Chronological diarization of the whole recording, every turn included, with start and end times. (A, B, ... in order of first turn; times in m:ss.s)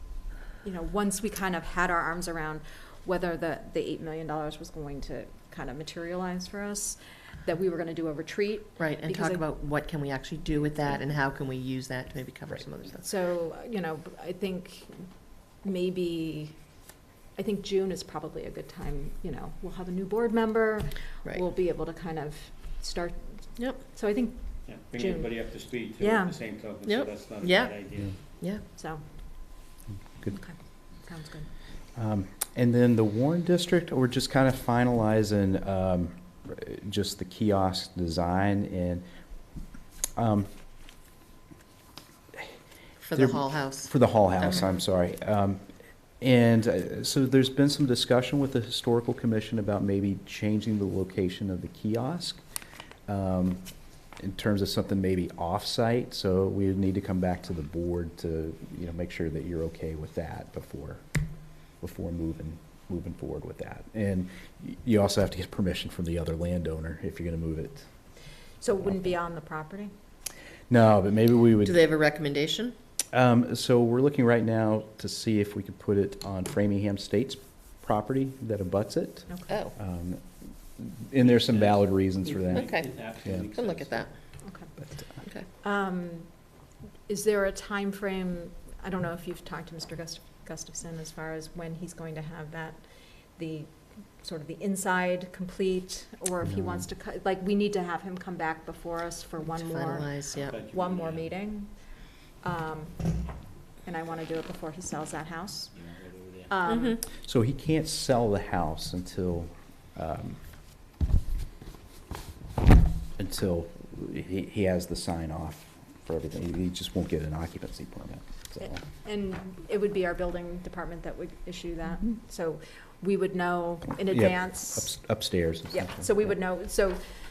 0:00.6-0:09.4 A
0:08.8-0:13.1 B
0:13.0-0:15.0 A
0:15.6-0:16.6 A
0:17.4-0:24.4 A
0:24.7-0:28.2 C
0:24.9-0:25.4 A
0:26.0-0:26.4 A
0:26.8-0:27.8 B
0:28.8-0:29.0 A
0:30.3-0:31.5 A
0:32.0-0:39.0 D
0:40.2-0:40.5 D
0:43.0-0:43.9 B
0:43.2-0:45.6 D
0:46.2-0:52.4 D
0:53.1-0:53.6 D
0:54.2-1:01.0 D
1:01.8-1:07.9 D
1:08.6-1:09.9 A
1:08.8-1:09.1 D
1:10.7-1:11.8 D
1:11.6-1:12.8 B
1:13.1-1:20.2 D
1:19.5-1:19.7 B
1:20.8-1:22.7 D
1:21.2-1:24.1 C
1:22.5-1:23.0 B
1:23.5-1:24.1 B
1:24.4-1:24.7 A
1:25.6-1:26.3 A
1:27.1-1:41.7 A
1:36.4-1:36.8 D
1:39.5-1:40.6 B
1:40.5-1:41.3 C
1:42.4-1:43.0 A
1:43.8-1:45.7 A
1:45.8-1:46.6 C
1:46.5-1:47.0 A
1:46.6-1:47.0 B
1:47.2-1:50.4 D
1:53.2-1:58.8 D
1:59.0-2:04.9 A
2:04.0-2:06.3 D
2:05.7-2:07.0 A